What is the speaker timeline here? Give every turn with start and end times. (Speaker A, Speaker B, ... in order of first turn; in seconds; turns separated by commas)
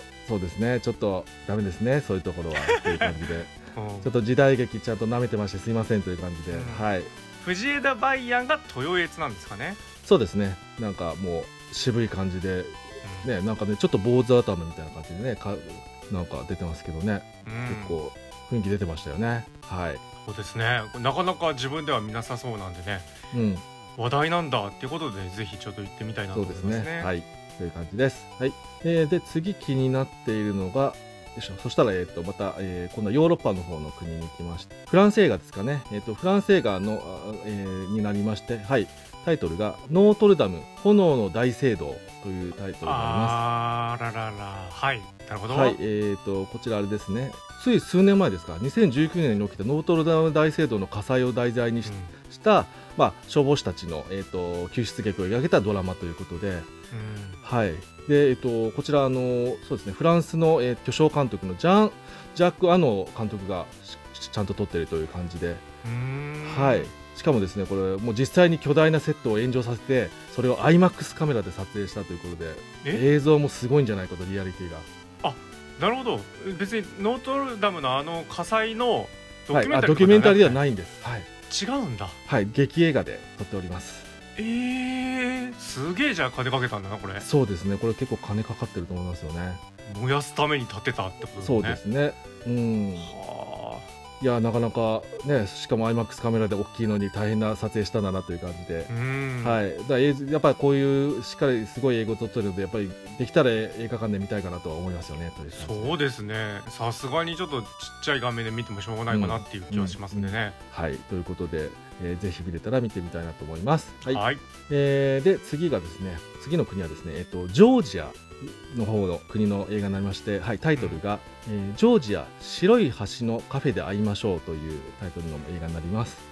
Speaker A: 0.2-7.1, Speaker B: 2.6-4.1, Speaker B: 6.5-9.8, Speaker A: 10.0-20.0, Speaker B: 13.0-13.3, Speaker B: 17.4-18.0, Speaker B: 20.2-23.1, Speaker A: 23.3-23.6, Speaker B: 24.0-27.1, Speaker A: 26.3-43.4, Speaker B: 42.8-45.8, Speaker A: 45.5-56.7, Speaker B: 51.8-52.1, Speaker B: 56.9-57.4, Speaker A: 57.4-65.6, Speaker B: 65.8-66.9, Speaker A: 66.4-74.9, Speaker B: 75.2-80.6, Speaker A: 79.5-81.3, Speaker B: 81.5-82.2, Speaker A: 82.3-84.1, Speaker B: 84.4-87.3, Speaker A: 87.2-89.6, Speaker B: 89.8-91.8, Speaker A: 91.4-93.2, Speaker B: 93.0-93.9, Speaker A: 94.2-106.0, Speaker B: 98.9-99.6, Speaker B: 105.5-110.6, Speaker A: 109.1-126.2, Speaker B: 114.1-114.4, Speaker B: 120.8-121.0